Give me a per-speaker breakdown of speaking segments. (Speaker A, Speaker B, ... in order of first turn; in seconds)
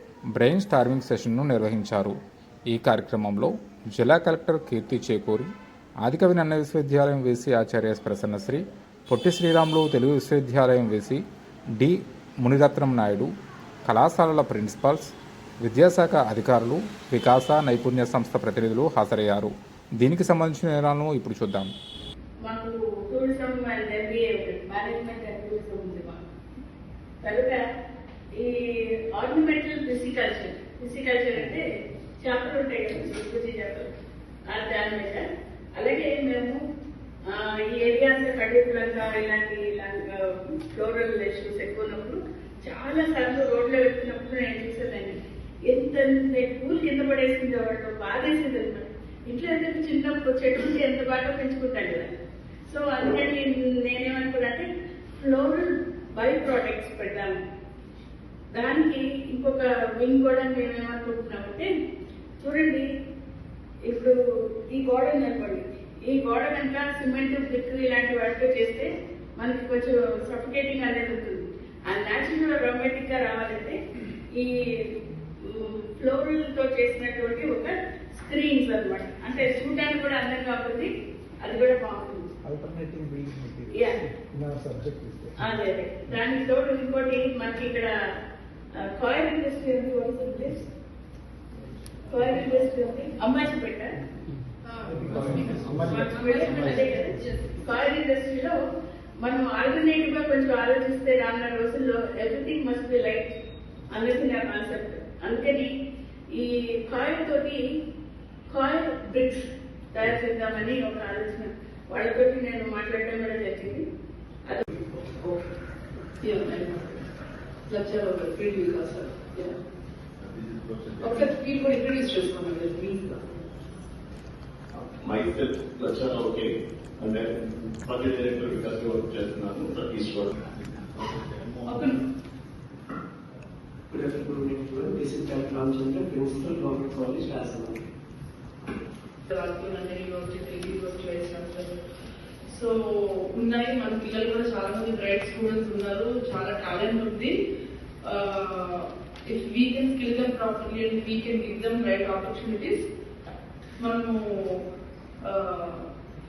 Speaker A: 0.3-2.1, 2.7-5.5, 6.0-11.2, 11.8-13.3, 13.8-21.7
Speaker B: 22.4-26.2, 27.2-27.6, 28.4-31.6, 32.2-33.9, 34.5-35.2, 35.8-36.6, 37.3-52.1, 52.7-54.7, 55.2-57.4, 58.5-61.7, 62.4-62.9, 63.8-73.8, 74.3-80.9, 81.4-82.3, 83.7-84.0, 85.4-87.9, 88.8-90.7, 92.1-94.0, 96.0-98.6, 99.2-103.3, 103.9-105.7, 106.3-107.6, 108.5-113.8
Speaker C: 82.4-85.4, 94.9-97.2
Speaker D: 115.1-115.4, 116.2-117.0, 117.7-119.6, 121.0-123.4, 131.6-132.0, 139.3-141.8, 142.5-147.3, 148.0-152.8, 153.8-154.7, 155.2-155.9
Speaker E: 120.2-121.3, 125.0-131.9
Speaker F: 133.9-137.8